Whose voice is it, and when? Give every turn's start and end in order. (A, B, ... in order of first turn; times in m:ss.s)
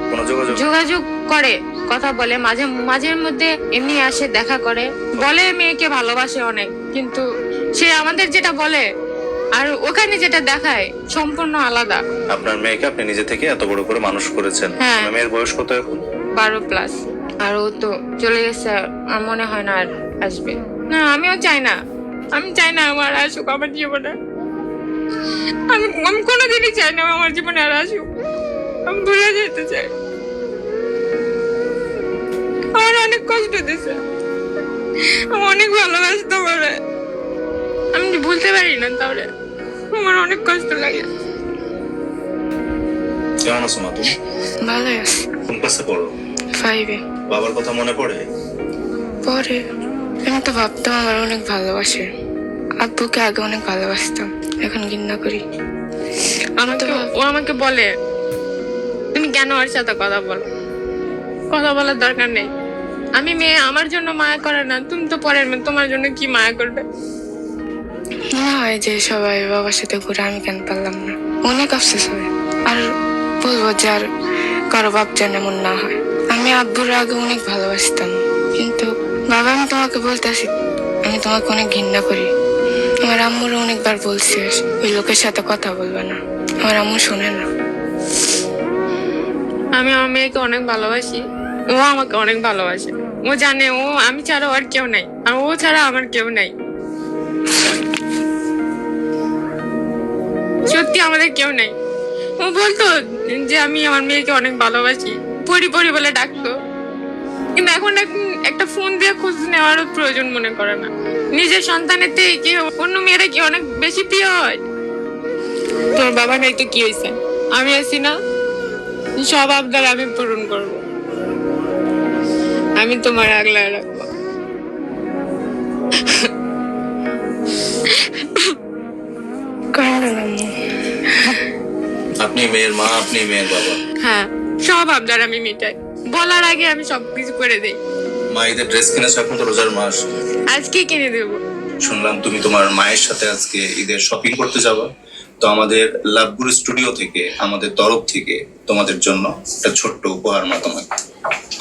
0:00.1-0:00.6 A
0:00.5-0:07.2 B
0:07.8-0:08.8 B
0:09.5-0:12.0 B
0:12.3-0:16.0 A
0:14.8-0:15.1 B
0:16.4-0:21.8 B
0:22.3-0:24.1 B
0:25.7-0:28.1 B
0:28.9-0:29.9 B
0:32.7-0:34.0 B
0:35.3-0:36.8 B
0:37.9-0:39.3 B
0:39.9-0:41.1 B
0:43.4-0:44.1 A
0:44.6-0:45.2 C
0:45.5-0:46.1 A
0:46.6-0:47.0 C
0:47.3-0:48.2 A
0:49.2-0:49.6 C
0:50.2-0:52.1 C
0:52.8-0:55.4 C
0:56.6-0:57.9 B
0:56.7-0:57.0 C
0:59.1-1:00.4 B
1:01.5-1:02.5 B
1:03.2-1:06.8 B
1:08.4-1:12.8 C
1:13.4-1:14.0 C
1:14.7-1:20.5 C
1:21.0-1:22.3 C
1:23.0-1:27.4 C
1:29.8-1:36.5 B
1:40.7-1:41.7 B
1:42.4-1:46.5 B
1:47.6-1:54.5 B
1:56.0-1:58.1 B
1:59.2-2:00.8 B
2:02.8-2:04.0 B
2:06.0-2:06.3 B
2:09.7-2:10.5 C
2:12.2-2:13.8 A
2:14.0-2:17.8 B
2:18.3-2:20.0 A
2:20.5-2:21.4 B
2:21.8-2:24.9 A
2:25.4-2:30.9 A